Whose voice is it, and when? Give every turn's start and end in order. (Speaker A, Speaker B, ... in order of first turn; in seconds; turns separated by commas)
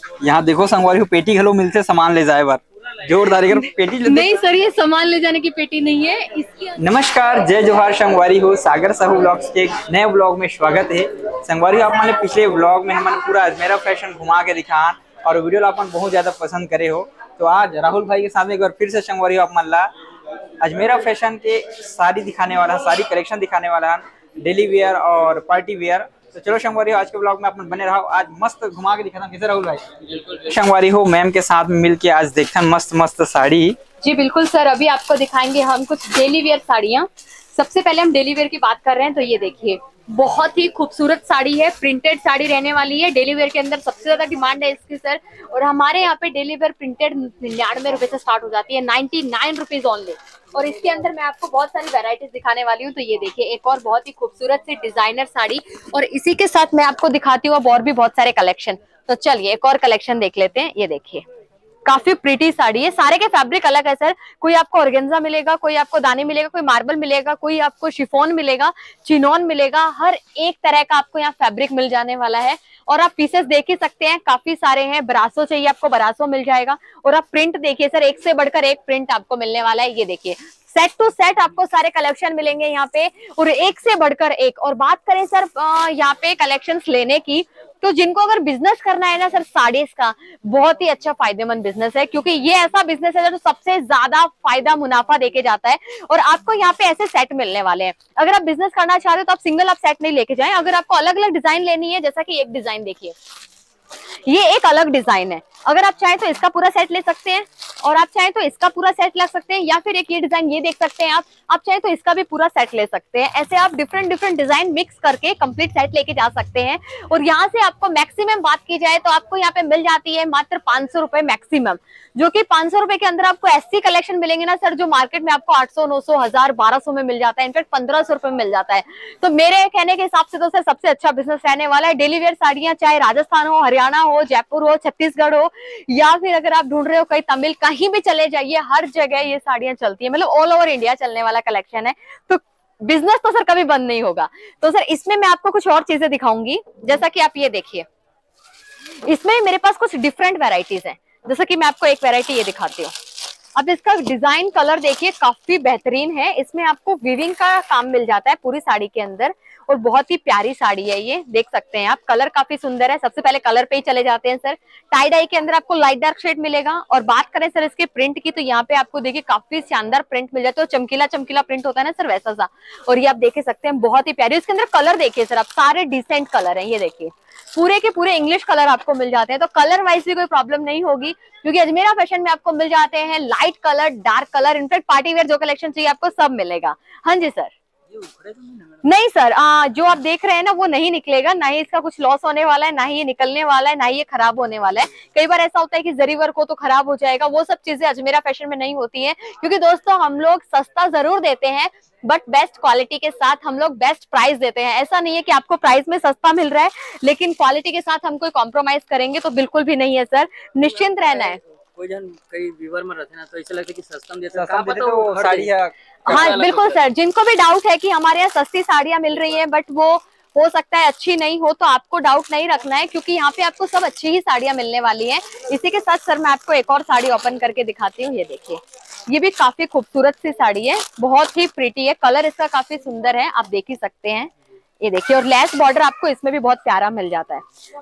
Speaker A: 0.2-4.3, Speaker B: 3.5-6.8, Speaker A: 6.8-19.9, Speaker A: 20.6-29.9, Speaker C: 30.2-30.5, Speaker A: 30.4-33.8, Speaker B: 34.0-61.2, Speaker B: 61.9-103.1, Speaker B: 104.2-147.8, Speaker B: 149.0-152.9, Speaker B: 153.6-187.5, Speaker C: 187.9-188.8, Speaker B: 188.8-211.4, Speaker C: 210.9-215.5, Speaker A: 214.3-216.3, Speaker B: 216.1-237.4, Speaker C: 216.1-216.8